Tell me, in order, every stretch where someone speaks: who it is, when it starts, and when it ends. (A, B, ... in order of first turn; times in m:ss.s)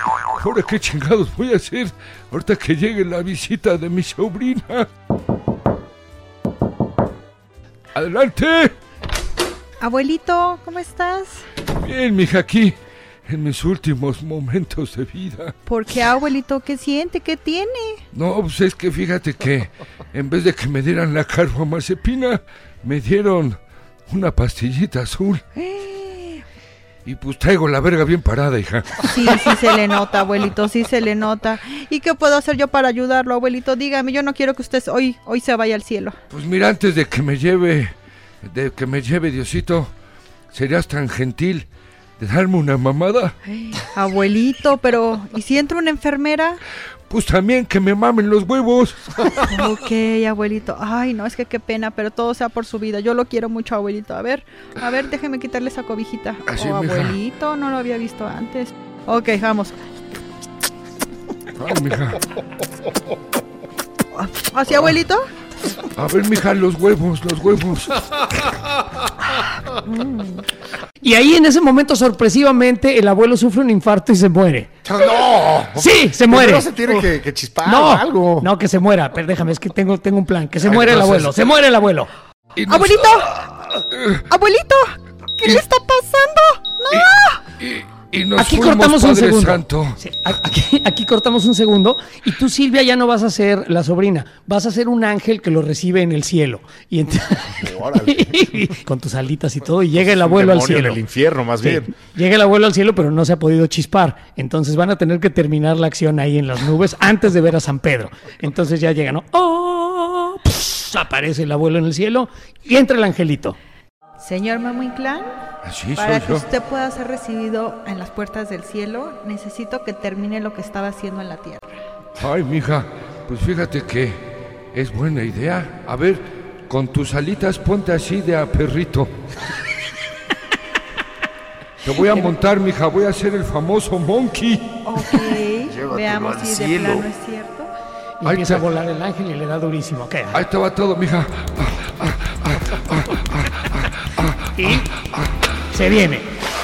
0:00.3-0:04.9 A
0:07.9-0:08.7 A
0:09.8-0:11.5 B
0:11.8-0:12.8 A
0:13.3-0:15.5 A
0:15.7-0:18.0 B
0:18.1-0:25.4 A
0:25.6-0:26.4 B
0:27.0-0:29.8 A
0:29.0-0:36.2 B
0:36.3-0:39.9 A
0:40.5-0:41.7 A
0:42.2-0:43.4 A
0:43.5-0:46.6 B
0:47.1-0:49.6 A
0:49.4-0:59.8 B
0:56.5-0:57.2 A
1:01.6-1:02.2 A
1:04.1-1:05.3 B
1:05.9-1:08.5 A
1:09.9-1:10.4 B
1:11.0-1:14.8 C
1:14.8-1:18.5 D
1:15.8-1:17.1 C
1:17.6-1:22.1 C
1:20.6-1:21.4 A
1:22.6-1:24.2 A
1:22.7-1:23.4 B
1:24.3-1:27.4 B
1:27.6-1:30.0 A
1:28.4-1:41.0 C
1:37.6-1:38.7 D
1:40.0-1:41.9 D
1:41.6-1:53.6 C
1:54.2-1:55.4 B
1:55.6-1:56.4 A
1:56.0-2:01.8 B
2:02.2-2:04.2 A
2:04.7-2:09.1 A
2:11.8-2:14.6 A
2:12.0-2:12.3 B
2:14.9-2:17.7 B
2:15.7-2:17.1 D
2:18.2-2:20.5 C
2:18.2-2:18.6 A
2:20.3-2:25.3 A
2:24.6-2:24.9 C
2:25.7-2:26.3 C